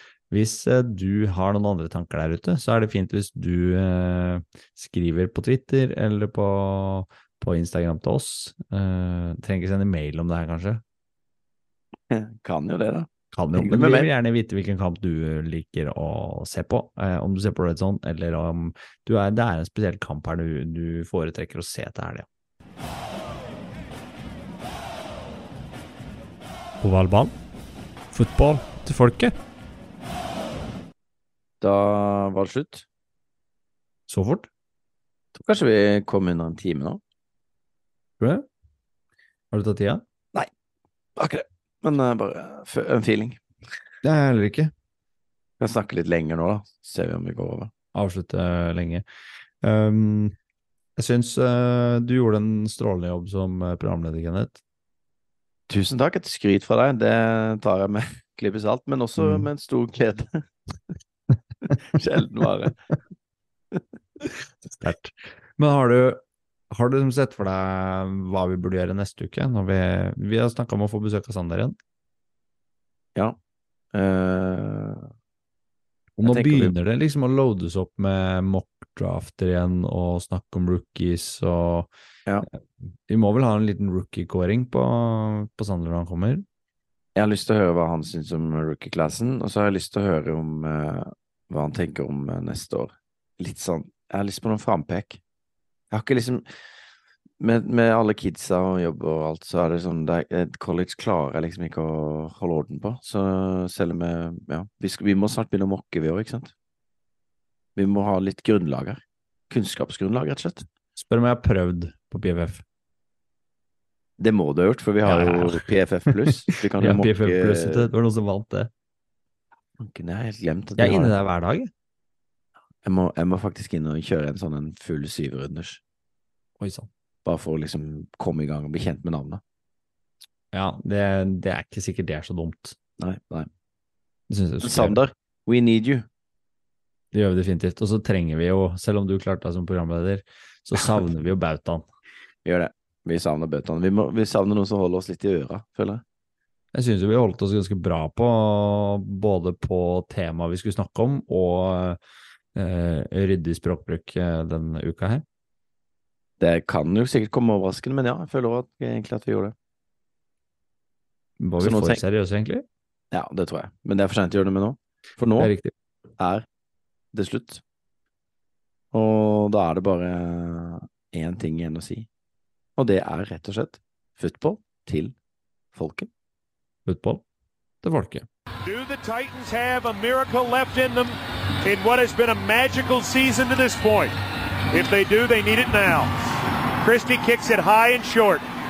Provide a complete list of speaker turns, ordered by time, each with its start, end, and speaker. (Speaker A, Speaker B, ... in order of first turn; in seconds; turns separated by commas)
Speaker A: 0.3-10.8, Speaker B: 12.1-14.1, Speaker A: 13.3-22.3, Speaker A: 26.8-27.3, Speaker A: 28.1-29.4, Speaker B: 31.6-32.9, Speaker A: 34.1-34.5, Speaker B: 35.4-37.0, Speaker A: 38.2-38.5, Speaker A: 39.5-40.0, Speaker B: 41.2-43.4, Speaker A: 44.0-44.7, Speaker B: 45.6-47.7, Speaker A: 47.9-49.0, Speaker A: 49.6-50.4, Speaker A: 51.0-54.6, Speaker B: 55.7-60.4, Speaker A: 59.2-59.5, Speaker B: 61.7-62.8, Speaker A: 64.7-71.8, Speaker B: 73.9-75.1, Speaker A: 76.2-81.9, Speaker B: 76.2-76.7, Speaker A: 83.1-86.5, Speaker B: 87.2-95.2, Speaker B: 95.9-96.5, Speaker B: 97.4-106.5, Speaker B: 107.8-110.7, Speaker A: 111.0-112.6, Speaker B: 114.2-117.9, Speaker A: 115.1-118.7, Speaker B: 119.8-121.1, Speaker A: 120.8-121.7, Speaker B: 122.8-125.8, Speaker A: 126.6-126.9, Speaker B: 127.2-129.4, Speaker A: 130.5-132.8, Speaker B: 133.0-133.5, Speaker A: 134.3-135.0, Speaker B: 134.6-136.1, Speaker A: 137.1-141.9, Speaker B: 142.4-146.0, Speaker A: 146.7-152.0, Speaker A: 152.6-155.2, Speaker B: 156.4-159.6, Speaker A: 161.4-162.7, Speaker B: 161.6-162.0, Speaker B: 163.1-165.5, Speaker A: 165.4-165.7, Speaker B: 166.2-166.5, Speaker B: 167.1-167.6, Speaker B: 168.9-172.1, Speaker B: 172.8-175.2, Speaker B: 175.7-176.1, Speaker A: 176.9-177.2, Speaker A: 177.8-178.3, Speaker C: 178.7-184.1, Speaker C: 184.7-186.2, Speaker C: 186.8-188.4